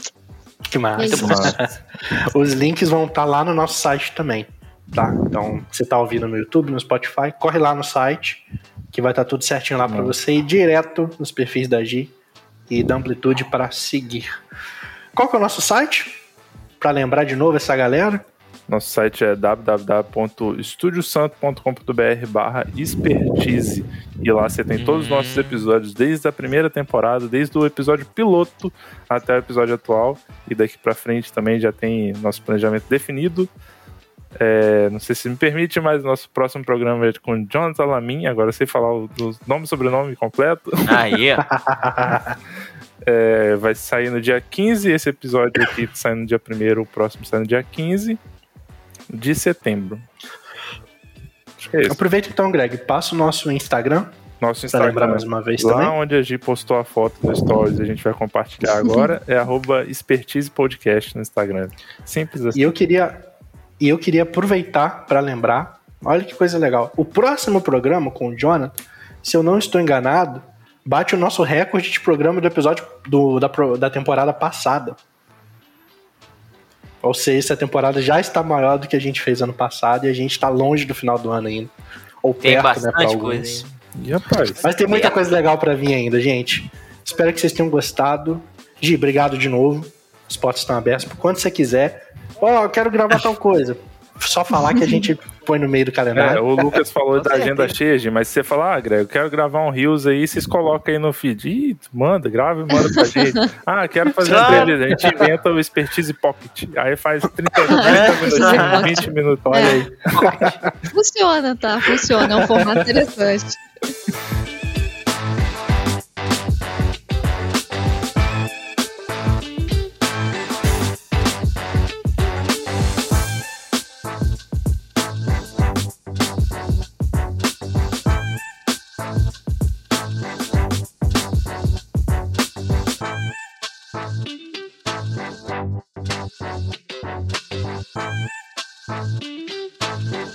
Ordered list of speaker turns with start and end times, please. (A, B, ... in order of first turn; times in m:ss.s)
0:00.7-0:12.1 A
0:01.0-0:01.5 B
0:01.1-0:01.7 C
0:01.1-0:01.6 D
0:09.8-0:10.2 D
0:12.7-0:14.4 A
0:15.2-0:16.2 A
0:16.8-0:18.3 A
0:18.7-0:33.5 D
0:24.8-0:25.7 C
0:34.4-0:41.0 D
0:40.9-0:41.5 C
0:41.4-0:42.4 A
0:43.0-0:48.2 D
0:49.1-0:50.1 D
0:51.6-0:52.0 D
0:51.9-0:54.1 A
0:54.4-1:02.7 D
0:54.7-0:56.0 A
1:02.5-1:03.2 A
1:03.8-1:08.7 A
1:09.2-1:15.0 A
1:17.0-1:21.7 A
1:22.2-1:23.7 A
1:22.4-1:23.7 C
1:24.0-1:24.6 D
1:24.6-1:36.8 A
1:24.9-1:25.2 C
1:36.1-1:49.9 D
1:37.3-1:37.7 C
1:42.9-1:43.4 B
1:44.2-1:44.8 C
1:44.4-1:45.2 A
1:47.7-1:49.8 B
1:47.8-1:49.1 C
1:49.5-1:50.8 A
1:50.1-1:50.5 C
1:50.9-1:53.6 B
1:52.2-1:52.8 A